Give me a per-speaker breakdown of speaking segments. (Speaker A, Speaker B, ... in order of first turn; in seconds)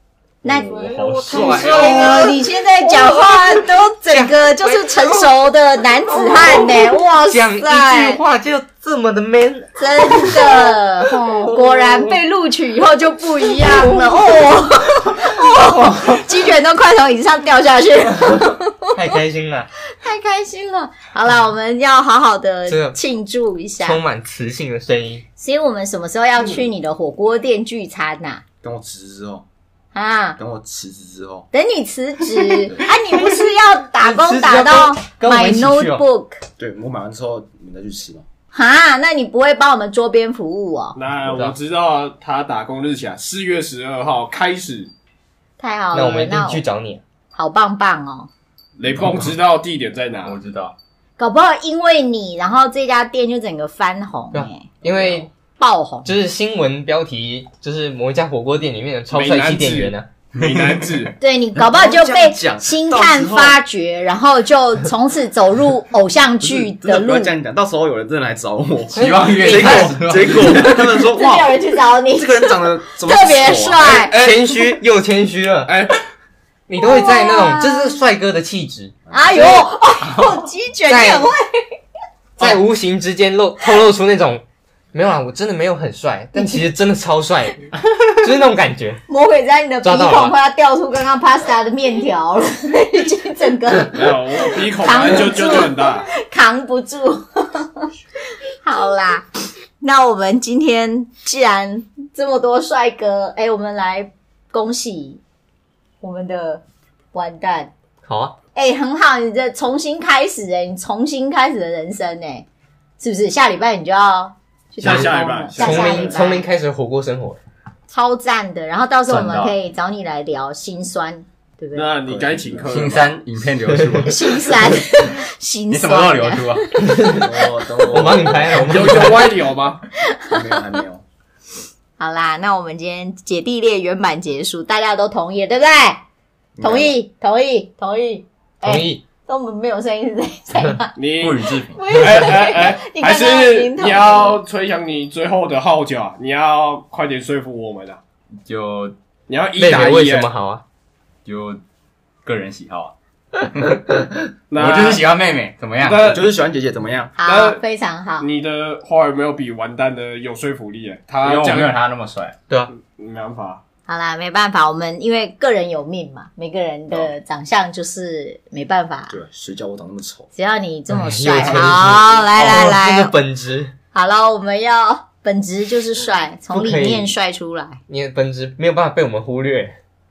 Speaker A: 0.4-0.9, 1.4-8.2, 9.8-19.1, 20.0-24.0, 25.4-28.4, 29.9-30.4, 31.5-36.4, 38.5-41.0, 45.6-46.6, 47.3-48.3, 51.2-54.8, 55.6-56.1, 61.2-67.3, 70.6-74.2, 76.8-78.0, 79.1-81.8, 89.1-97.9, 98.6-99.3, 99.8-105.2, 106.0-107.7, 108.5-112.5, 113.0-116.5, 117.9-121.9, 124.0-127.7, 130.1-130.4, 132.0-136.1, 136.6-140.9, 141.7-144.4, 157.2-158.3, 163.9-169.2, 170.3-173.1, 173.9-177.8
Speaker B: 0.5-2.3, 50.2-50.8, 60.4-61.0, 69.0-70.7, 80.1-80.4, 119.1-119.5, 122.7-124.6, 125.7-126.7, 141.2-141.9, 148.4-148.9, 151.2-151.6, 152.2-156.2, 161.2-162.3
Speaker C: 0.5-5.3, 6.2-12.2, 13.5-14.2, 15.2-16.2, 18.3-19.7, 22.7-23.0, 23.8-25.2, 34.0-36.0, 41.3-41.5, 45.9-47.0, 54.3-55.3, 56.0-60.1, 68.9-70.5, 74.1-75.8, 76.7-79.0, 80.9-81.3, 82.4-89.0, 89.8-90.3, 108.0-108.4, 114.8-117.4, 126.9-127.2, 127.9-129.3, 138.6-139.0, 149.6-150.6, 170.9-173.7, 176.5-177.1, 177.9-179.8
Speaker D: 1.3-1.7, 41.0-44.9, 48.8-50.4, 59.1-61.1, 74.0-74.7, 75.7-76.0, 93.9-96.1, 114.8-116.2, 121.7-123.1, 128.5-129.8, 141.0-148.0, 149.3-150.3, 154.5-155.1, 155.8-156.3, 157.2-157.6, 158.2-161.8, 162.7-163.6
Speaker E: 28.6-29.4, 30.4-31.5, 36.6-38.2, 61.6-63.6, 66.4-74.0, 122.1-122.9, 127.0-128.5, 130.3-131.0, 136.6-136.9, 156.1-157.2, 169.1-170.3